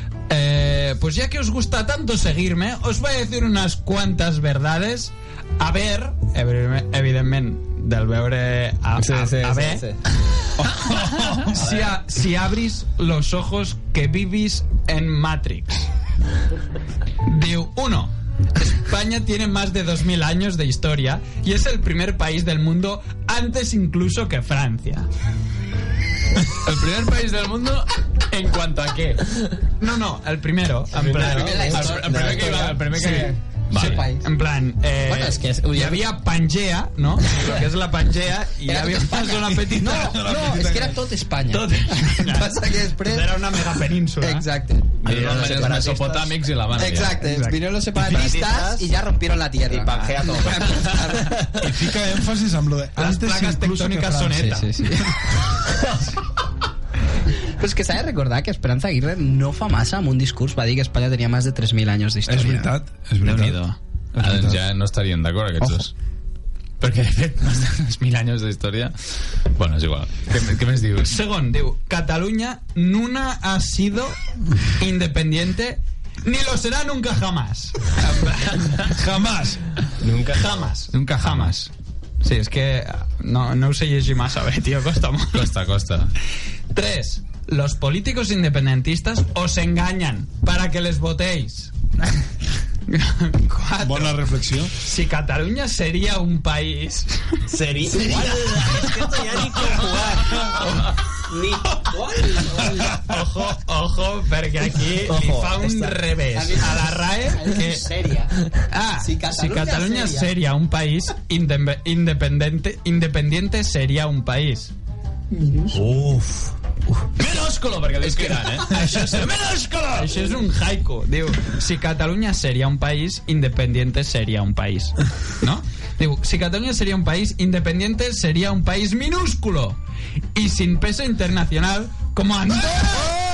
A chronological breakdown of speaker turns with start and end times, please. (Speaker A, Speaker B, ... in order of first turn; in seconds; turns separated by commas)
Speaker A: 0.3-9.8, Speaker B: 9.0-10.0, Speaker C: 10.6-11.5, Speaker A: 10.8-15.8, Speaker B: 11.5-11.9, Speaker A: 17.2-25.1, Speaker D: 26.6-29.4, Speaker A: 29.8-31.8, Speaker B: 30.9-32.8, Speaker E: 31.1-34.3, Speaker D: 31.7-34.1, Speaker A: 33.7-40.2, Speaker E: 35.0-36.0, Speaker E: 38.6-43.6, Speaker C: 39.9-41.0, Speaker A: 41.5-44.5, Speaker E: 44.2-51.5, Speaker B: 45.0-46.1, Speaker D: 45.0-47.2, Speaker A: 47.2-47.6, Speaker B: 48.0-48.9, Speaker D: 48.1-48.4, Speaker B: 49.6-51.6, Speaker D: 50.5-51.0, Speaker C: 51.5-54.6, Speaker A: 53.0-55.0, Speaker E: 54.4-55.4, Speaker E: 57.4-62.7, Speaker C: 62.3-63.6, Speaker A: 63.2-63.8, Speaker C: 64.1-64.6, Speaker D: 64.2-65.9, Speaker E: 65.6-65.8, Speaker D: 66.8-71.2, Speaker A: 71.0-79.0, Speaker C: 78.9-79.9, Speaker B: 80.0-80.7, Speaker A: 80.3-81.7, Speaker D: 80.9-81.6, Speaker A: 82.2-85.5, Speaker D: 85.3-86.1, Speaker A: 86.7-91.7, Speaker A: 92.9-97.4, Speaker C: 93.8-94.7, Speaker B: 97.5-100.4, Speaker E: 97.9-98.8, Speaker A: 98.0-98.9, Speaker E: 99.5-100.6, Speaker A: 100.3-101.0, Speaker E: 101.2-103.0, Speaker A: 101.7-107.8, Speaker B: 105.0-106.0, Speaker E: 106.3-110.3, Speaker A: 108.7-114.7, Speaker E: 115.3-115.8, Speaker D: 115.7-116.5, Speaker D: 117.2-120.3, Speaker A: 118.0-129.8, Speaker A: 130.3-133.1